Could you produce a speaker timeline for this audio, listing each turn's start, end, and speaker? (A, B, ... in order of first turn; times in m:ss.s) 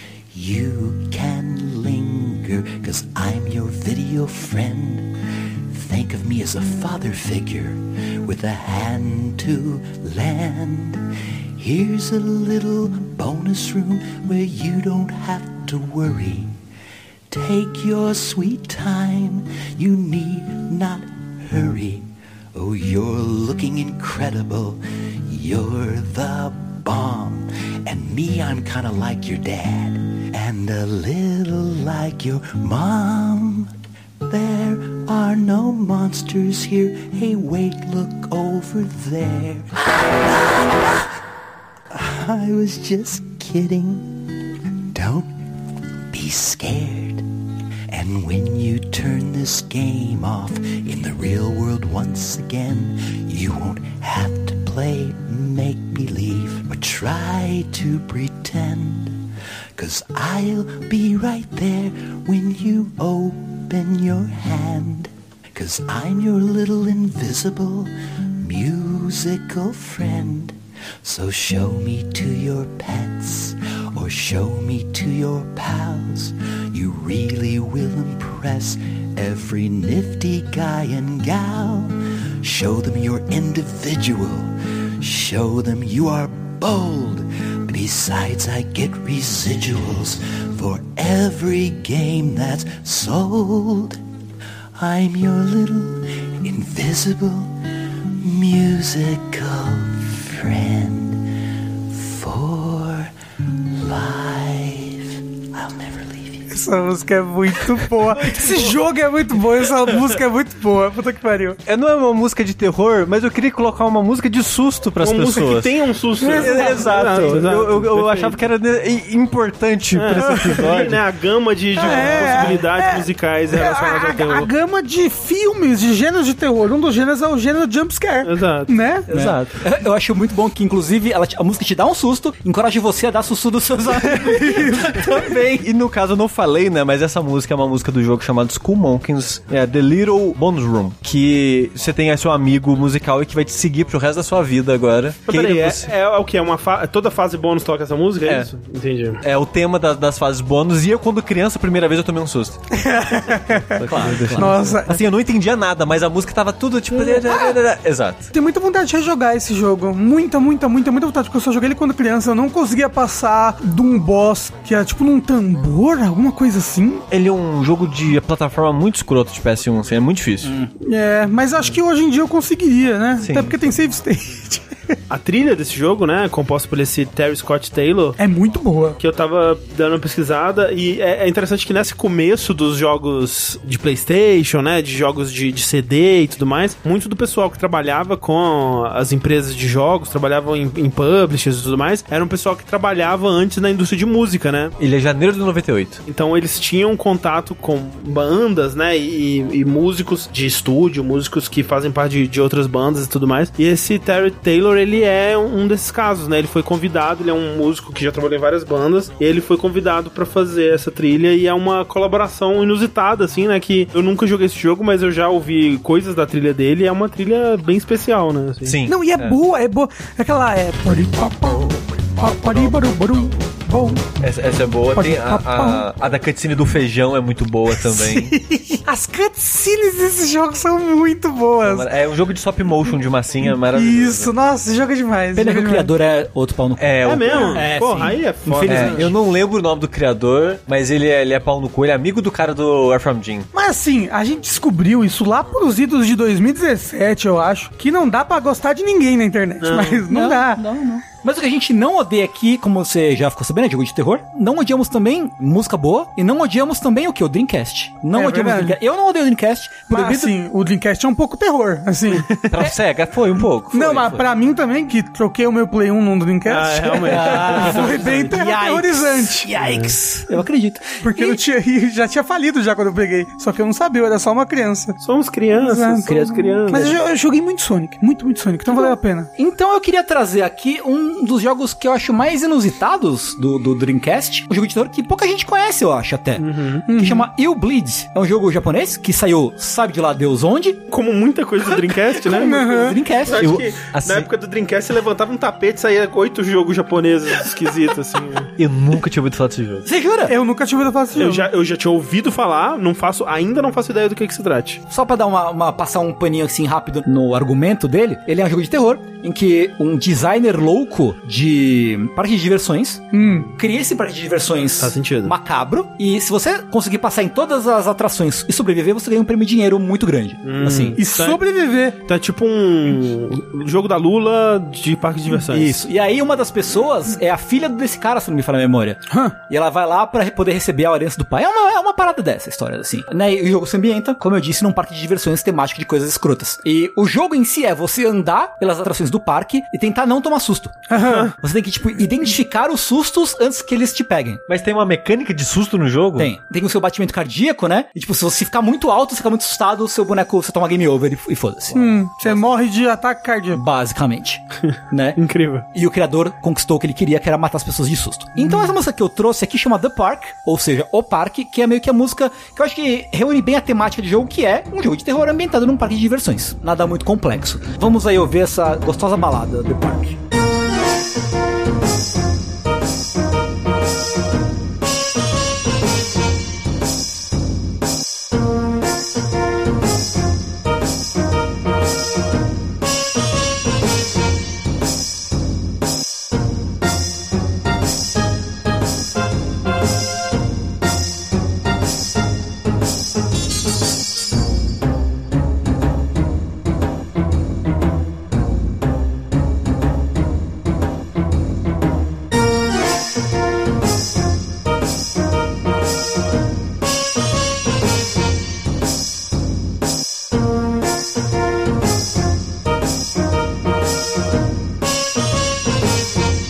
0:00.3-0:05.1 A
0:05.7-0:16.6 A
0:17.3-0:33.7 A
0:34.2-0:41.1 A
0:41.9-0:45.3 A
0:46.1-0:47.3 A
0:47.9-1:34.0 A
1:34.8-1:37.6 A
1:38.2-1:41.3 A
1:41.9-1:43.1 A
1:43.7-1:46.5 A
1:46.5-1:51.6 B
1:51.7-2:00.9 C
1:55.0-1:58.4 D
1:56.2-1:57.3 B
2:00.0-2:04.5 D
2:01.8-2:09.0 B
2:01.8-2:02.5 C
2:08.2-2:08.7 D
2:09.1-2:09.5 C
2:09.1-2:15.2 E
2:14.0-2:25.9 C
2:14.4-2:15.2 B
2:25.3-2:29.2 D
2:28.3-2:28.5 C
2:29.2-2:32.6 C
2:32.7-2:35.0 B
2:33.8-2:34.8 D
2:33.8-2:34.6 E
2:34.4-2:38.3 C
2:36.9-2:37.6 B
2:38.3-2:47.0 B
2:47.1-2:50.6 C
2:50.4-2:50.7 E
2:50.8-2:55.0 B
2:53.2-2:53.5 C
2:55.1-2:58.2 D
2:58.2-2:59.0 B
2:59.0-3:14.7 D
3:14.8-3:16.0 C
3:16.1-3:38.8 D
3:38.6-3:39.4 C
3:38.9-3:44.1 B
3:44.2-3:48.3 C
3:45.0-3:45.8 B
3:47.8-3:51.9 B
3:51.6-3:54.3 C
3:53.4-3:55.9 B
3:55.4-3:59.1 E
3:56.8-3:57.7 C
3:57.0-3:59.1 D
3:58.7-4:03.5 C
4:03.5-4:10.6 B
4:09.6-4:10.0 D
4:10.1-4:20.4 E
4:18.2-4:18.8 B
4:19.9-4:22.4 B
4:22.5-4:24.2 C
4:23.7-4:29.5 B
4:26.5-4:28.0 D
4:27.0-4:31.4 E
4:29.6-4:30.0 D
4:31.0-4:35.0 B
4:35.0-4:37.0 D
4:35.5-4:39.3 B
4:38.7-4:50.8 E
4:46.4-4:46.9 D
4:46.9-4:47.3 B
4:50.9-4:58.5 D
4:51.6-4:53.6 E
4:52.2-4:53.0 B
4:53.4-4:54.3 C
4:58.6-4:59.9 C
4:59.8-5:00.4 E
5:00.3-5:01.5 B
5:01.1-5:04.8 D
5:04.9-5:21.0 E
5:13.1-5:13.5 B
5:13.2-5:13.5 D
5:14.8-5:15.3 D
5:20.4-5:21.4 D
5:21.0-5:22.0 B
5:22.1-5:25.8 D
5:25.3-5:44.4 E
5:29.1-5:29.4 B
5:40.9-5:41.3 B
5:44.5-5:46.3 C
5:46.2-5:52.4 E
5:51.7-5:53.6 B
5:53.5-5:55.2 E
5:55.2-5:55.6 D
5:55.7-6:10.2 E